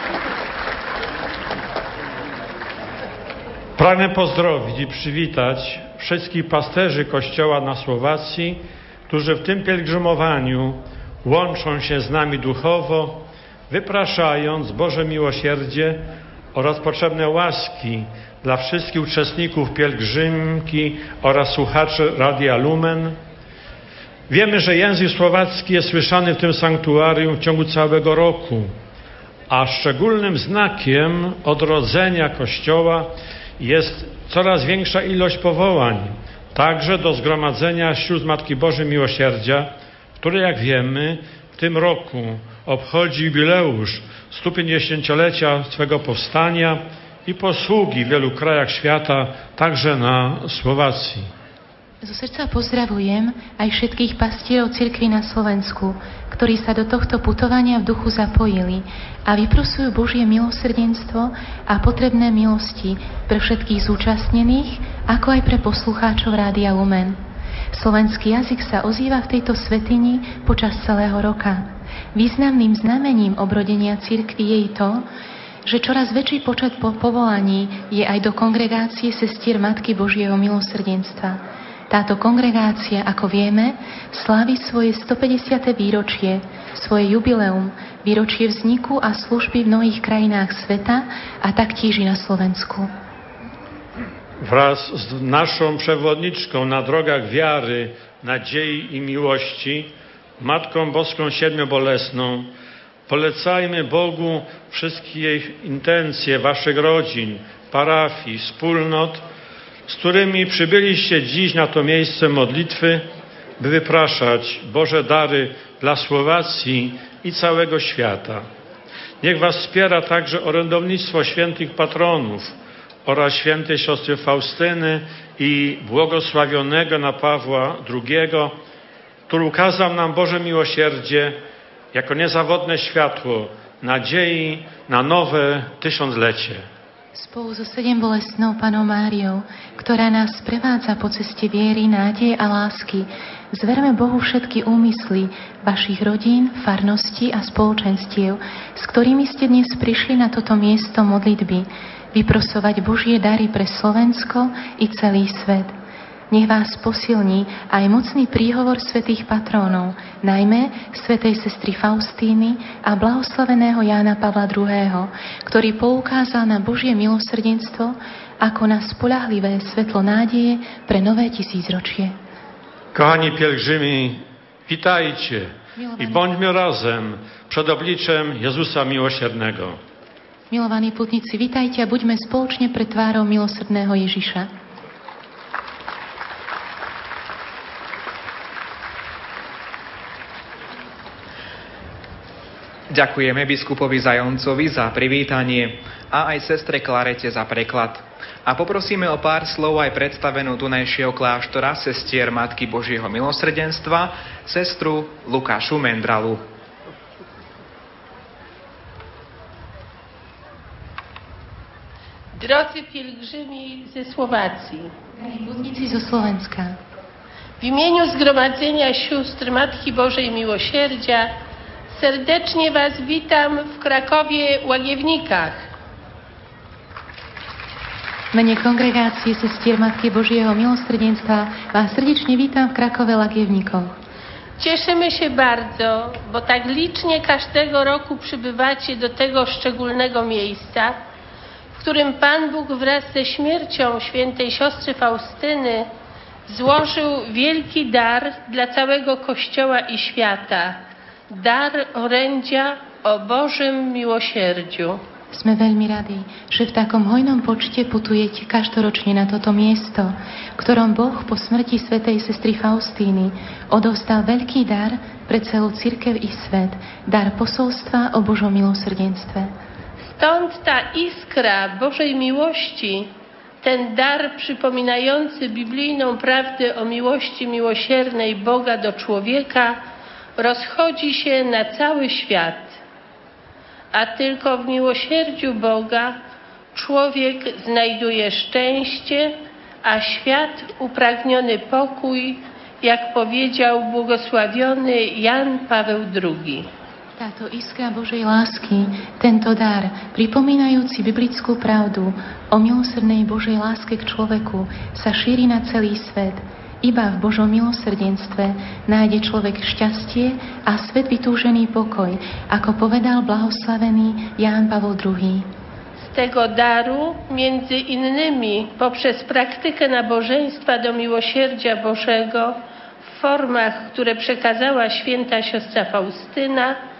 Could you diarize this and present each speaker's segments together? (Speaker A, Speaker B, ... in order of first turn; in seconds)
Speaker A: 3.8-23.2, 24.3-28.7, 29.5-51.3, 94.4-102.5, 103.1-109.2, 109.9-113.1, 113.6-118.5, 119.2-128.6, 129.3-131.4, 131.9-136.7, 172.9-179.8
Speaker B: 52.0-67.2, 67.7-75.0, 75.7-92.9, 137.2-155.7, 156.3-172.2, 175.8-176.3, 180.5-184.5, 215.2-216.8, 228.3-234.0, 255.3-269.5, 297.2-315.5
Speaker C: 192.9-206.4
Speaker D: 212.4-214.9, 217.6-221.3, 221.9-225.6, 234.6-241.0, 241.8-245.9, 246.5-250.8, 251.3-255.0, 270.1-273.1, 273.6-279.8, 280.4-282.8, 283.9-286.2, 286.7-296.7, 316.0-326.8